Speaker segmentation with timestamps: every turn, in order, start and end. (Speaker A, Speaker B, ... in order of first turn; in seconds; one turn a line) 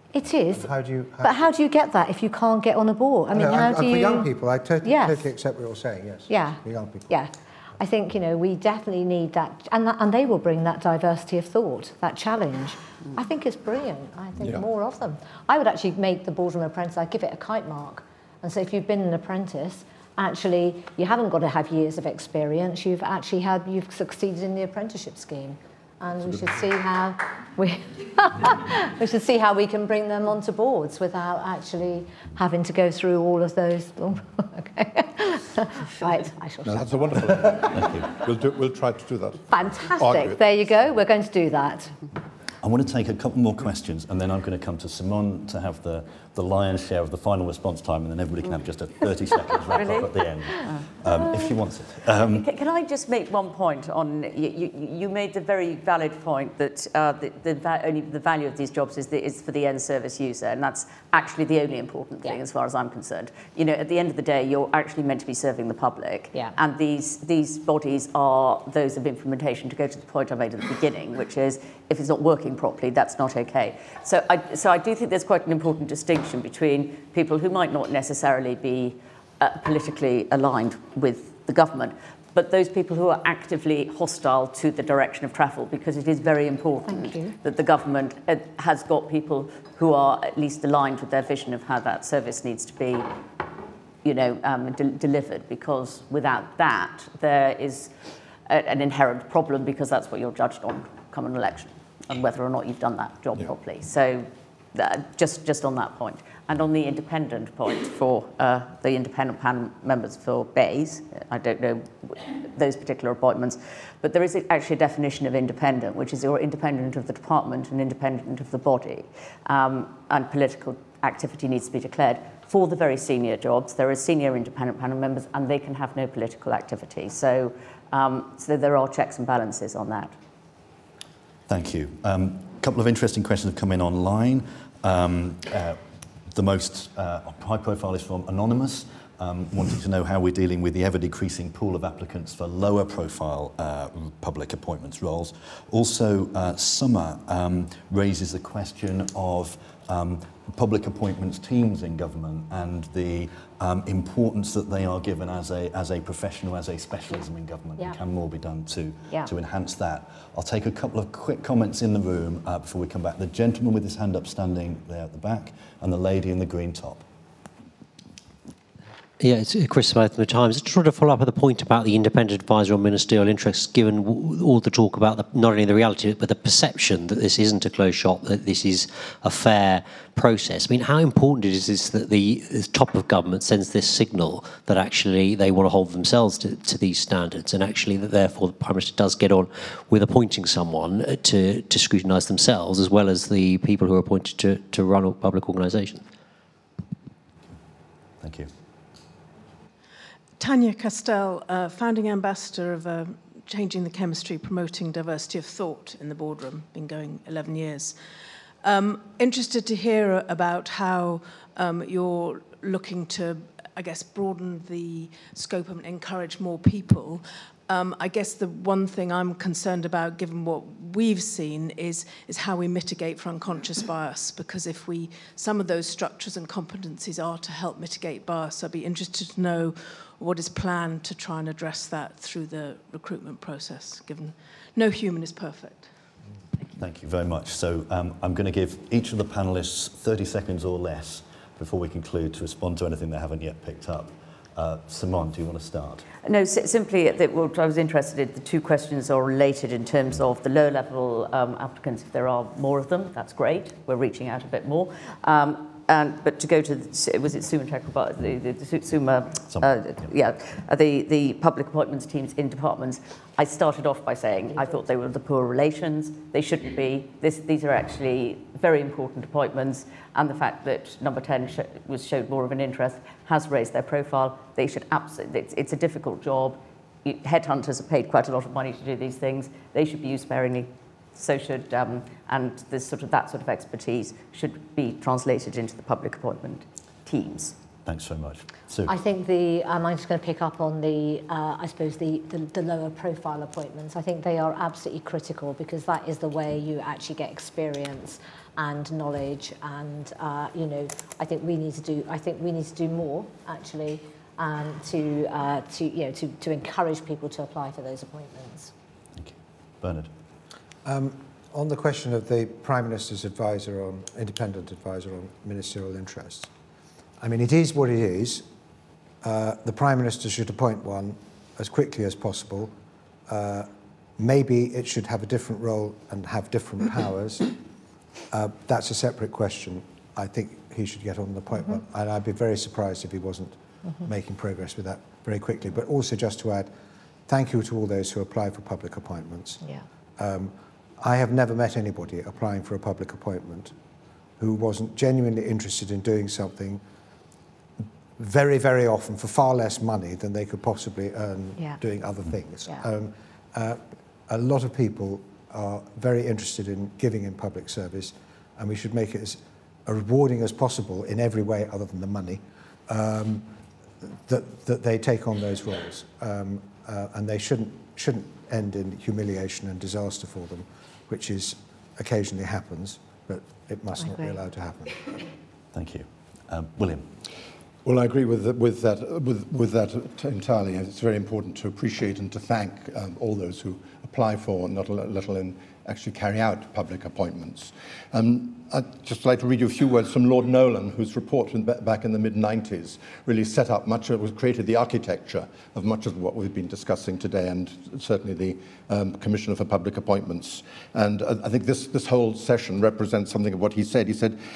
Speaker A: 0.1-4.3
Speaker B: 0.5-1.5
Speaker B: 3.3-7.1
Speaker A: 4.8-5.3
Speaker A: 6.3-37.0
Speaker C: 36.6-40.4
Speaker D: 37.7-38.1
Speaker A: 39.5-42.0
Speaker D: 42.6-52.5
Speaker E: 49.8-50.9
Speaker E: 52.2-93.1
Speaker A: 86.9-87.3
Speaker E: 94.0-97.9
Speaker E: 98.5-130.1
Speaker D: 131.5-135.8
Speaker D: 136.3-167.1
Speaker F: 169.2-196.0
Speaker D: 198.2-198.5
Speaker G: 200.4-207.9
Speaker G: 208.6-235.9
Speaker D: 236.8-246.1
Speaker E: 246.2-287.6
Speaker D: 259.5-260.1
Speaker D: 287.9-288.9
Speaker A: 288.9-308.7
Speaker D: 309.2-310.1
Speaker B: 310.8-316.5
Speaker B: 317.2-318.5
Speaker B: 319.2-322.7
Speaker B: 323.3-327.5
Speaker B: 328.3-336.7
Speaker B: 337.3-339.6
Speaker B: 340.2-343.7
Speaker B: 344.4-346.8
Speaker B: 348.2-363.5
Speaker B: 364.0-375.2
Speaker A: 374.0-374.4
Speaker D: 375.7-377.1
Speaker C: 377.9-404.4